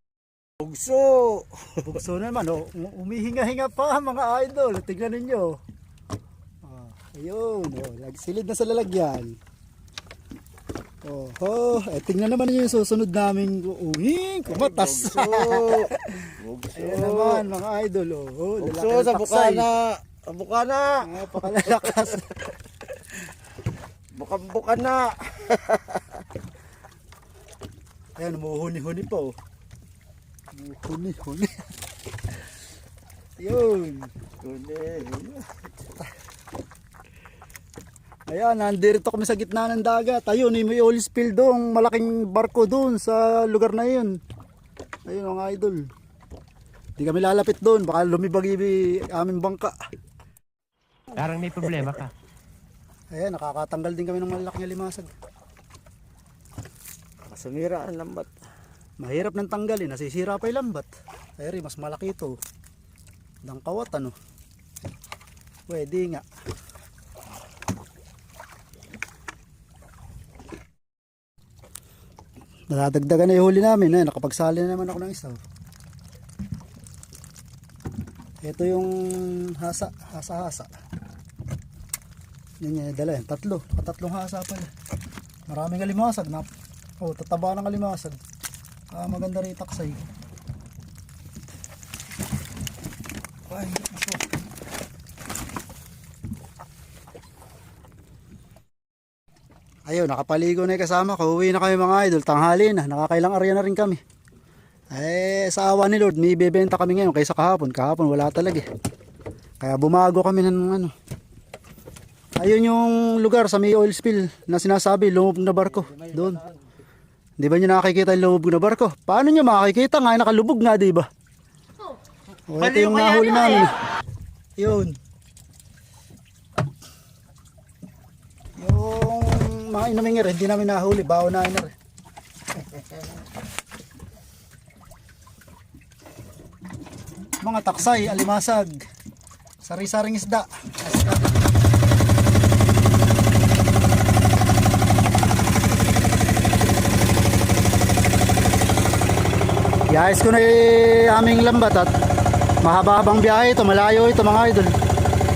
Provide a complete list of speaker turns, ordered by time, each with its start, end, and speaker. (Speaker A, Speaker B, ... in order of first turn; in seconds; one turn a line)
Speaker A: 0.6-1.8
Speaker B: 1.8-5.6
Speaker B: 6.6-9.4
Speaker B: 11.0-19.7
Speaker A: 14.5-17.4
Speaker A: 18.6-22.2
Speaker B: 21.0-22.3
Speaker A: 24.1-26.0
Speaker B: 28.2-29.3
Speaker B: 30.5-31.6
Speaker B: 33.4-34.1
Speaker A: 34.4-35.5
Speaker B: 38.3-44.2
Speaker B: 45.1-45.9
Speaker B: 47.0-49.7
Speaker A: 51.5-52.0
Speaker B: 53.1-55.1
Speaker A: 57.2-58.3
Speaker B: 59.0-62.4
Speaker B: 63.4-64.1
Speaker B: 65.7-66.2
Speaker B: 72.7-75.4
Speaker B: 78.4-80.7
Speaker B: 82.6-84.7
Speaker B: 85.5-86.5
Speaker B: 87.0-88.2
Speaker B: 88.9-90.0
Speaker B: 93.5-94.2
Speaker B: 99.9-104.0
Speaker B: 104.9-108.6
Speaker B: 109.6-110.9
Speaker B: 112.4-116.4
Speaker A: 115.8-116.5
Speaker B: 117.4-121.1
Speaker B: 122.5-123.8
Speaker B: 124.6-125.0
Speaker B: 128.6-131.7
Speaker B: 137.4-138.8
Speaker B: 139.6-141.3
Speaker B: 149.9-151.9
Speaker B: 152.6-154.7